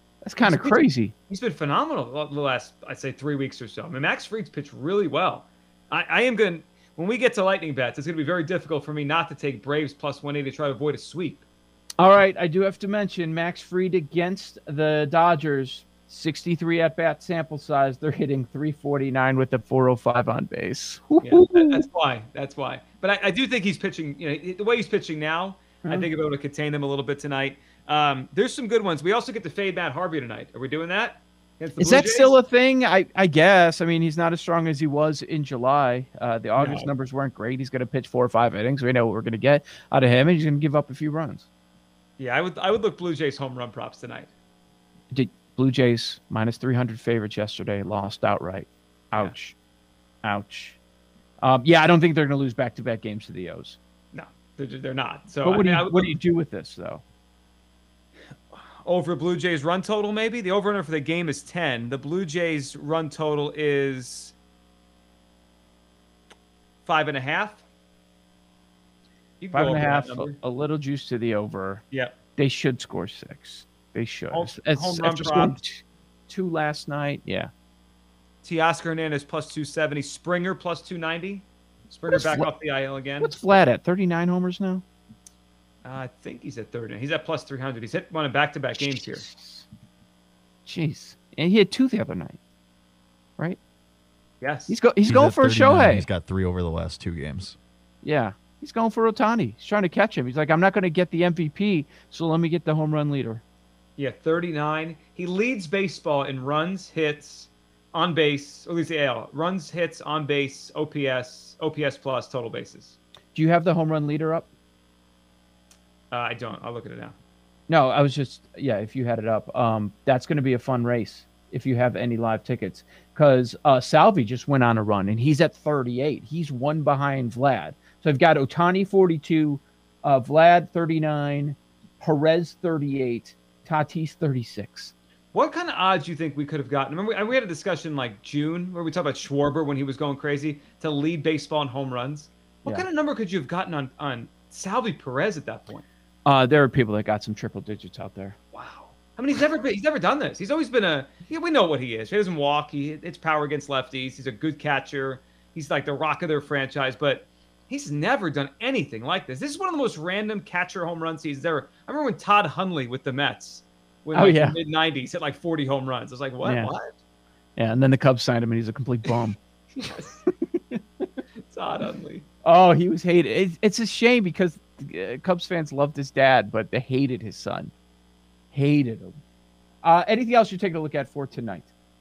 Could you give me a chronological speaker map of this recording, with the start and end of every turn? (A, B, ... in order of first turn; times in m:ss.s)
0:00.2-0:01.1 A
0:00.4-0:11.4 B
0:12.0-0:21.9 A
0:21.2-0:32.4 B
0:31.8-0:41.5 A
0:36.6-0:36.9 B
0:42.2-0:44.3 B
0:45.1-0:49.6 A
0:50.2-0:50.8 A
0:51.4-0:53.8 A
0:54.1-0:56.1 B
0:55.4-0:57.0 A
0:58.5-1:04.4 B
1:06.9-1:07.6 B
1:09.4-1:10.4 B
1:09.5-1:11.8 A
1:12.4-1:17.5 A
1:14.3-1:15.6 B
1:18.4-1:23.4 B
1:22.1-1:22.5 A
1:23.2-1:24.8 A
1:25.8-1:29.3 B
1:29.2-1:29.6 A
1:30.7-1:32.4 A
1:34.4-1:34.8 B
1:34.7-1:36.1 A
1:35.1-1:37.6 C
1:38.0-1:43.4 A
1:44.0-1:53.0 B
1:53.3-1:54.5 A
1:56.1-1:57.2 B
1:57.7-2:14.9 A
2:15.3-2:25.8 B
2:26.2-2:28.4 A
2:28.5-2:46.9 B
2:44.1-2:44.6 A
2:46.4-2:46.7 A
2:47.6-2:49.4 A
2:49.8-2:50.2 B
2:51.5-2:52.2 B
2:52.4-2:57.7 A
2:58.5-2:59.1 A
2:59.8-3:01.7 A